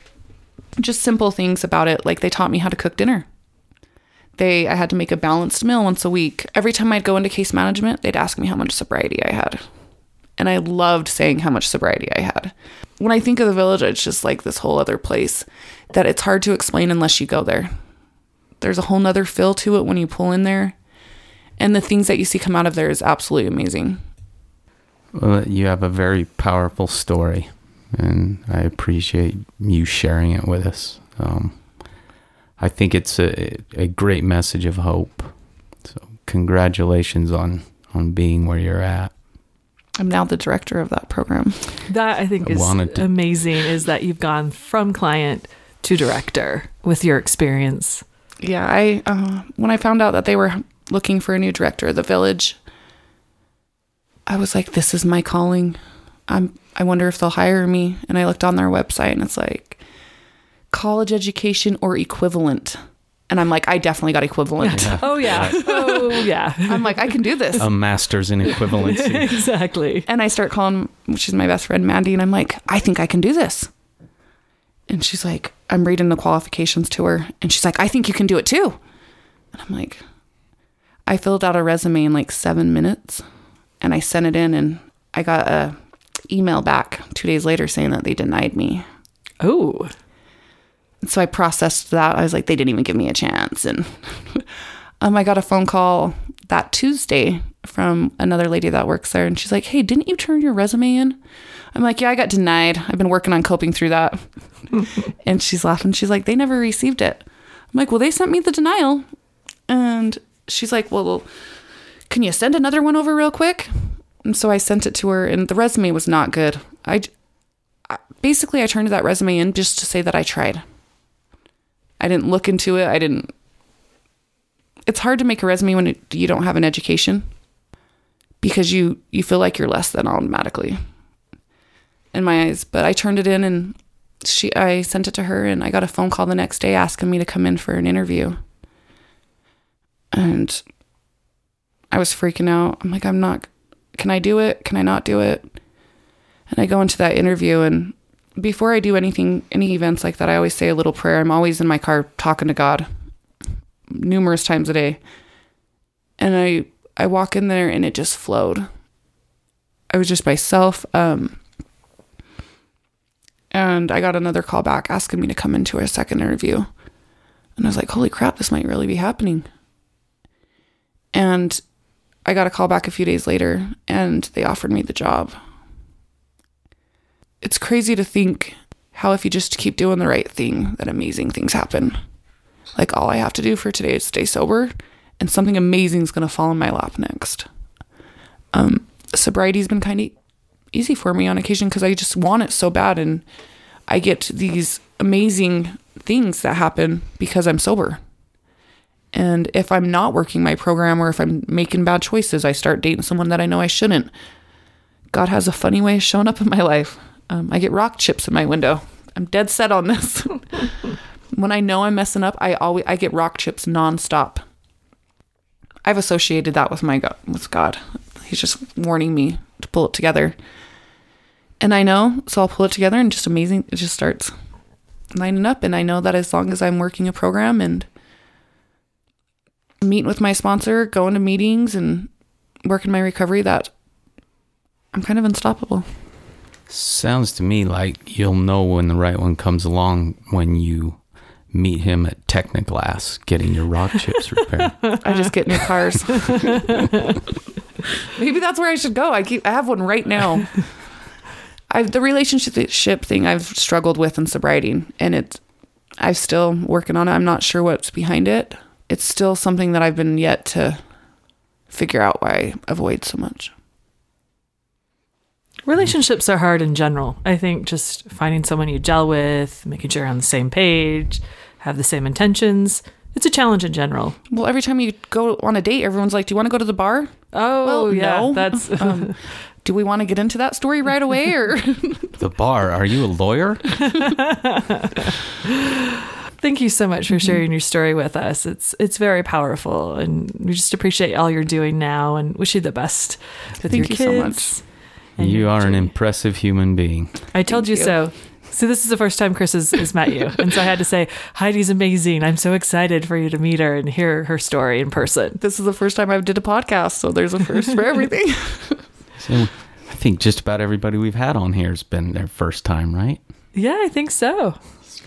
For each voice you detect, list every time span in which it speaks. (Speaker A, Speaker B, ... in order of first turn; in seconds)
Speaker A: 0.8-3.3, 4.4-9.6, 10.4-17.7, 18.6-20.8, 21.6-24.0, 40.0-41.8, 48.4-52.6, 54.3-59.8, 60.7-62.8, 63.3-66.1, 66.7-67.7, 70.1-73.7, 74.9-78.8, 79.5-80.0, 81.1-83.2, 83.8-85.8, 86.3-88.8, 91.0-94.5, 95.0-101.2, 101.7-104.3, 105.2-109.1, 109.7-111.3, 112.1-117.1, 117.9-120.6, 122.0-123.3, 124.9-127.3, 128.4-130.8, 132.1-138.4, 140.1-140.6, 141.9-145.5, 146.5-152.9, 153.9-155.0, 156.2-158.7, 159.9-161.4, 163.5-166.7, 167.6-169.5, 171.1-171.6, 172.2-175.4, 177.4-182.0, 182.8-187.5, 188.5-190.1, 190.7-193.2, 193.9-198.0, 199.1-204.1, 205.1-210.8, 211.3-214.4, 215.8-220.3, 221.6-224.3, 225.1-227.9, 229.8-232.1, 232.7-233.7, 234.9-235.9, 245.0-246.7, 248.1-250.7, 251.7-255.4, 256.0-260.8, 261.7-263.5, 274.3-282.1, 287.1-287.4, 293.7-294.6, 297.5-297.9, 305.4-308.9
Speaker B: 25.1-31.7, 32.6-39.1, 42.4-43.1, 64.7-65.6, 67.6-69.4, 236.7-245.0, 282.2-283.9, 295.2-297.3, 309.2-313.2
Speaker C: 41.9-48.0, 64.6-67.2, 68.5-70.1, 89.4-89.9, 265.7-274.2, 277.3-279.2, 284.0-285.5, 286.4-295.9, 297.3-305.4, 313.5-314.6